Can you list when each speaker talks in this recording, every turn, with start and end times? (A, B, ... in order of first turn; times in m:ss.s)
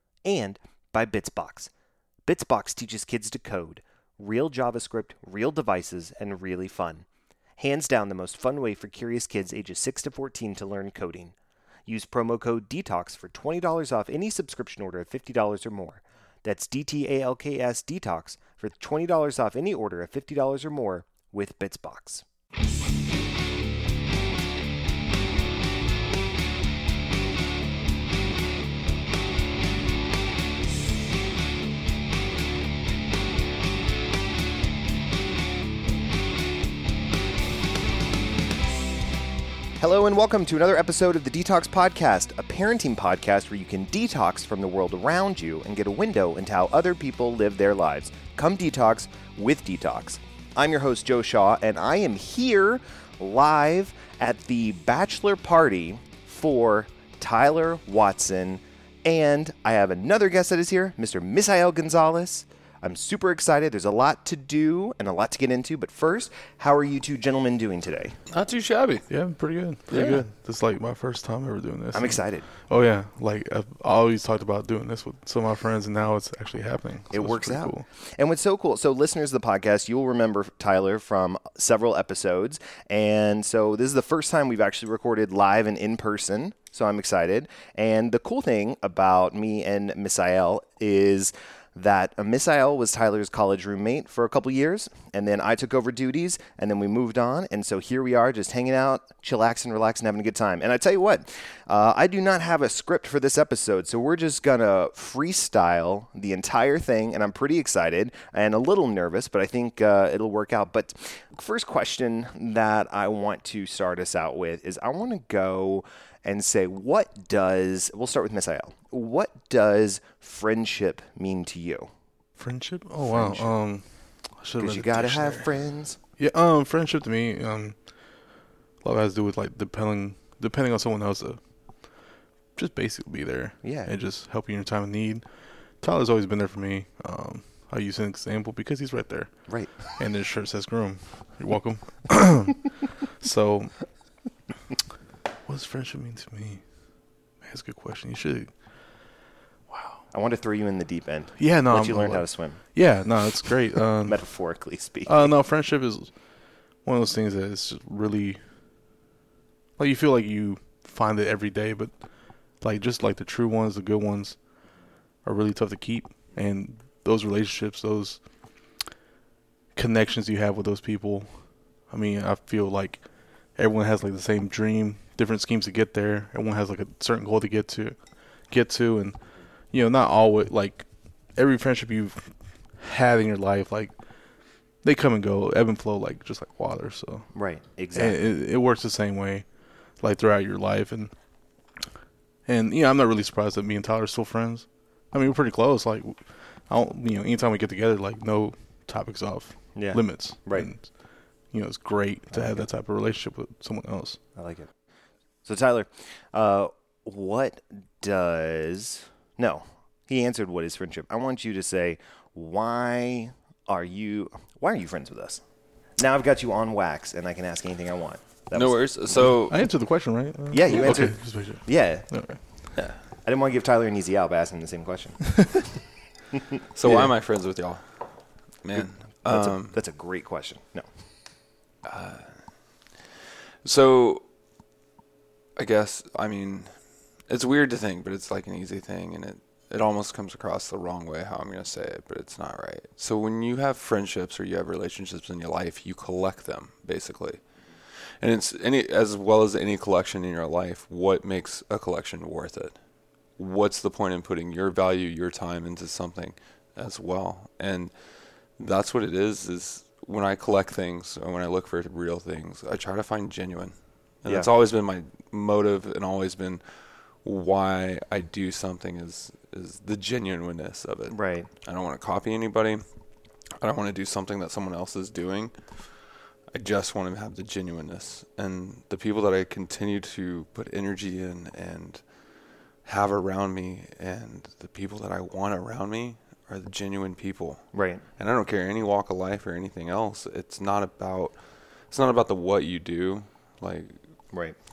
0:00.2-0:01.7 A
0:02.3-0:07.0 A
0:07.6-0:11.3 A
0:11.9-0:22.2 A
0:39.8-1:08.2 A
1:08.3-1:09.0 B
1:09.1-1:17.8 C
1:09.9-1:10.2 A
1:11.9-1:12.5 A
1:17.1-2:01.9 A
2:02.4-2:03.8 C
2:03.0-2:03.5 A
2:04.4-2:05.4 C
2:04.6-2:06.0 A
2:06.2-2:07.7 C
2:08.8-2:11.4 C
2:12.6-2:15.2 C
2:13.6-2:13.9 A
2:15.8-2:19.3 C
2:19.5-2:19.7 A
2:20.0-2:23.8 C
2:25.5-2:26.6 C
2:27.4-2:28.5 C
2:29.7-2:30.0 C
2:30.1-2:32.6 A
2:31.4-2:34.2 C
2:34.0-2:35.3 A
2:35.0-2:36.1 C
2:36.8-2:38.4 C
2:39.8-2:41.9 C
2:42.6-2:44.4 C
2:45.2-2:48.2 C
2:49.8-2:51.3 C
2:51.9-2:53.0 C
2:53.6-2:58.0 C
2:58.5-2:59.2 C
2:59.7-3:00.8 C
3:01.4-3:02.3 C
3:02.8-3:03.9 C
3:04.8-3:07.3 C
3:07.3-3:08.2 A
3:07.9-3:09.4 C
3:10.0-3:11.1 C
3:12.5-3:16.2 C
3:16.7-3:20.8 C
3:19.7-3:20.7 A
3:21.5-3:24.2 C
3:22.3-3:22.6 A
3:24.4-3:24.7 A
3:25.4-3:35.4 A
3:36.0-3:39.3 A
3:38.5-3:39.6 B
3:39.4-3:42.4 C
3:40.5-3:42.1 A
3:43.2-3:45.6 A
3:46.6-3:47.1 A
3:46.7-3:47.8 B
3:48.6-3:49.8 B
3:48.7-3:50.9 A
3:51.8-3:52.3 B
3:53.6-3:54.2 B
3:55.6-3:56.7 B
3:57.3-4:07.4 B
4:08.2-4:12.8 B
4:13.4-4:17.9 B
4:18.6-4:26.6 B
4:27.2-4:32.8 B
4:31.1-4:31.5 A
4:33.6-4:35.5 B
4:36.5-4:42.0 B
4:42.8-4:47.6 B
4:47.7-4:48.0 A
4:48.2-4:51.3 B
4:51.9-4:54.0 B